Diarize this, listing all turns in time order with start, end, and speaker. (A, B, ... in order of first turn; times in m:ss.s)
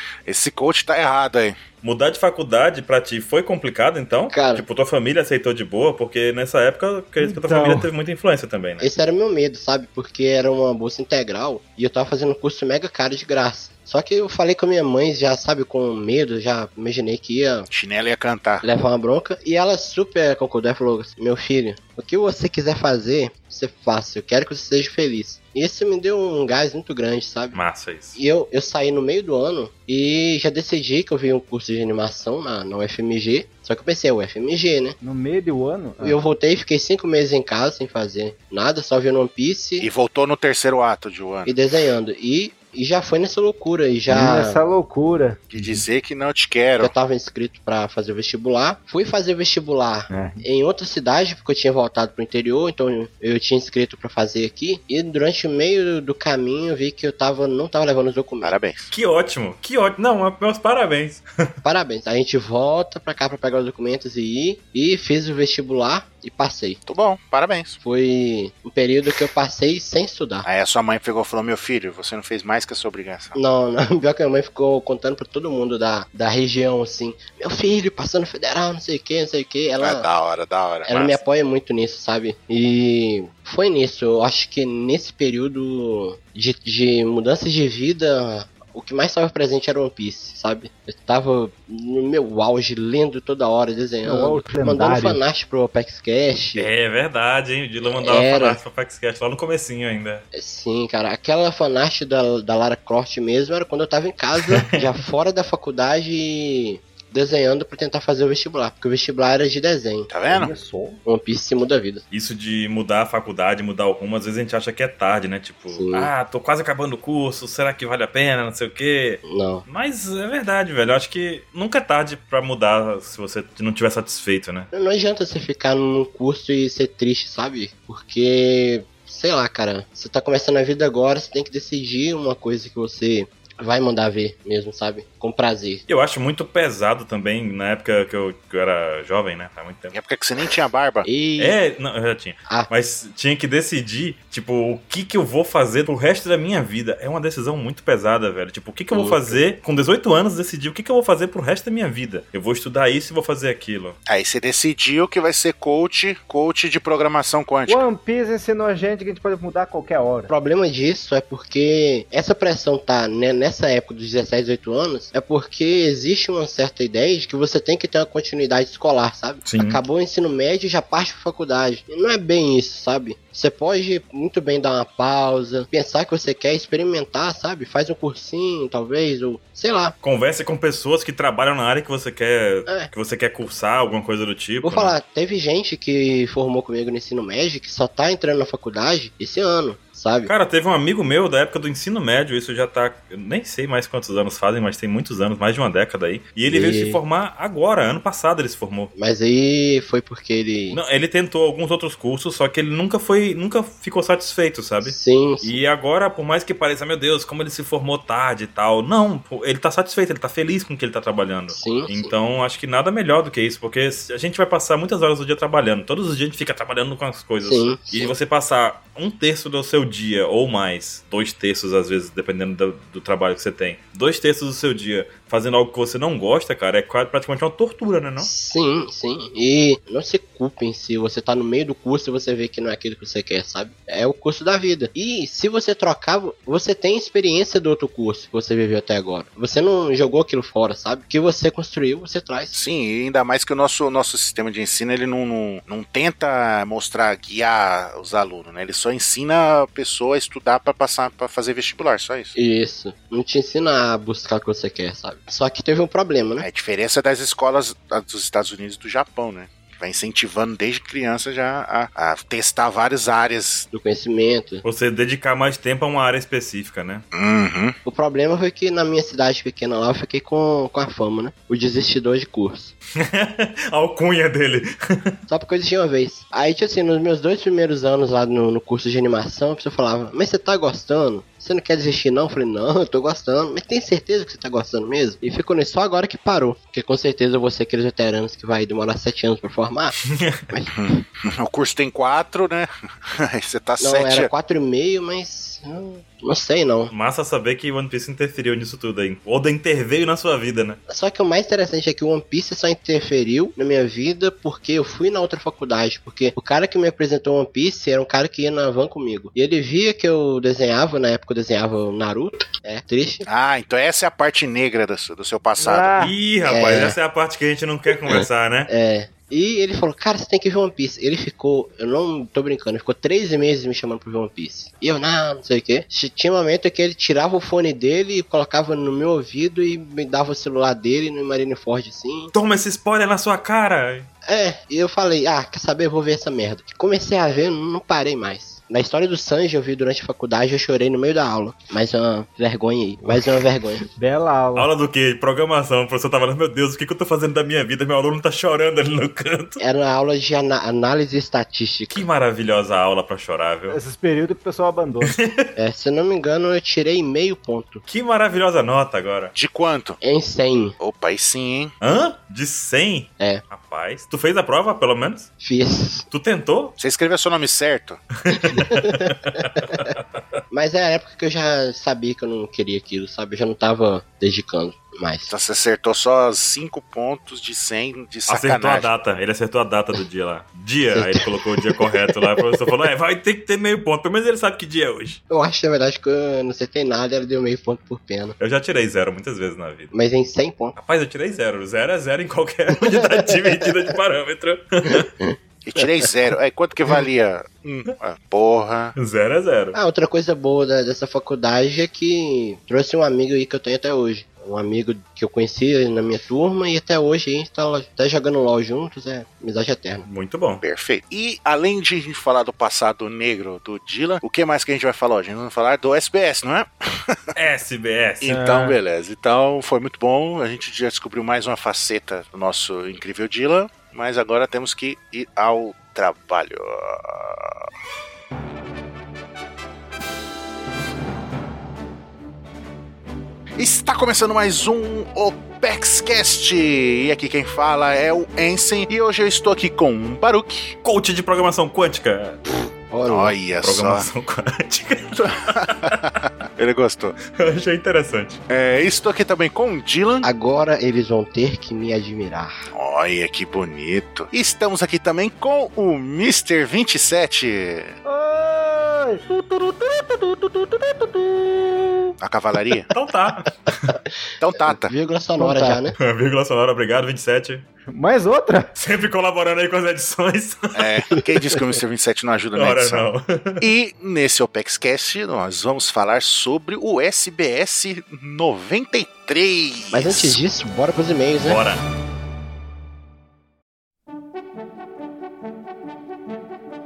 0:00.3-0:01.6 A
0:01.8-0:08.9 B
0:04.3-0:04.6 C
0:07.2-0:07.9 D
0:08.8-0:17.7 C
0:17.7-0:18.6 A
0:18.6-0:27.6 C
0:27.5-0:28.2 B
0:28.2-0:35.0 C
0:35.0-0:36.2 D
0:36.0-0:39.9 C
0:39.8-0:41.6 A
0:41.5-0:44.6 C
0:44.1-0:45.8 D
0:45.5-0:46.9 A
0:46.8-0:58.5 C
0:50.1-0:50.4 D
0:58.4-0:58.9 A
0:58.9-1:01.2 B
1:01.6-1:06.8 C
1:06.9-1:07.8 A
1:07.8-1:10.5 C
1:10.4-1:13.4 A
1:13.4-1:20.1 C
1:19.8-1:21.2 A
1:20.9-1:36.7 C
1:34.0-1:35.2 D
1:36.6-1:40.2 B
1:37.8-1:38.6 C
1:40.3-1:50.1 C
1:44.4-1:44.7 B
1:50.1-1:50.5 A
1:50.3-1:51.0 D
1:51.0-1:52.0 C
1:52.1-2:04.7 B
1:55.7-1:56.1 C
1:59.2-1:59.7 C
2:04.7-2:15.8 C
2:15.9-2:20.0 B
2:19.9-2:21.1 A
2:21.0-2:21.6 C
2:21.4-2:34.0 B
2:28.9-2:29.3 C
2:34.1-2:37.9 A
2:37.7-2:40.3 D
2:40.3-3:00.0 C
2:49.4-2:49.8 B
3:00.0-3:05.0 B
3:04.6-3:10.3 C
3:10.3-3:18.9 B
3:16.5-3:17.0 C
3:19.0-3:20.8 C
3:20.7-3:48.3 B
3:24.8-3:25.6 C
3:31.5-3:32.1 C
3:37.4-3:38.1 C
3:48.2-4:02.6 C
4:02.5-4:12.4 A
4:12.4-4:16.5 C
4:16.4-4:23.7 A
4:23.7-4:24.6 C
4:24.6-4:27.0 B
4:27.1-4:27.8 A
4:27.8-4:32.7 C
4:33.0-4:35.2 B
4:35.3-4:50.7 C
4:50.1-4:50.4 B
4:50.7-4:54.3 A
4:53.8-4:56.9 C
4:56.9-5:00.8 B
5:00.9-5:13.3 C
5:13.3-5:16.0 A
5:15.6-5:16.1 D
5:16.0-5:18.7 B
5:16.4-5:17.0 C
5:18.1-5:32.3 C
5:32.3-5:34.1 B
5:34.2-5:43.8 C
5:44.0-5:44.7 D
5:44.6-5:49.6 B
5:49.6-5:52.1 C
5:51.9-5:53.8 B
5:53.7-5:55.2 D
5:55.0-5:55.4 B
5:55.6-5:57.8 C
5:57.9-5:59.3 B
5:59.4-6:00.0 A
6:00.0-6:00.8 C
6:00.8-6:01.7 A
6:01.8-6:05.3 B
6:05.4-6:06.1 C
6:06.1-6:06.8 B
6:06.8-6:08.0 A
6:08.3-6:09.8 B
6:08.3-6:09.8 C
6:10.5-6:15.3 C
6:15.3-6:18.9 A
6:18.3-6:25.2 B
6:20.9-6:22.4 C
6:25.3-6:28.4 C
6:28.4-6:29.9 B
6:29.9-6:30.8 C
6:30.8-6:35.1 B
6:32.7-6:33.7 C
6:34.9-6:35.9 C
6:35.6-6:39.0 A
6:39.0-6:39.8 B
6:39.7-6:50.1 C
6:50.0-6:50.6 B
6:50.6-6:57.3 A
6:57.4-6:58.5 B
6:58.2-7:07.7 A
6:58.4-6:58.7 D
7:13.6-7:20.8 A
7:20.8-7:22.4 B
7:22.9-7:23.4 C
7:23.0-7:24.1 A
7:23.6-7:26.0 B
7:25.5-7:27.2 A
7:27.3-7:28.4 B
7:28.5-7:30.3 A
7:30.2-7:32.7 C
7:32.7-7:38.0 A
7:38.0-7:42.1 D
7:42.2-7:42.9 A
7:42.9-7:44.0 B
7:44.4-7:44.9 A
7:44.6-7:46.0 C
7:45.4-7:45.9 D
7:46.0-7:47.6 B
7:47.9-7:48.7 D
7:48.8-7:50.8 B
7:50.7-8:00.4 A
7:52.6-7:53.7 B
7:59.9-8:01.6 C
8:01.4-8:01.8 B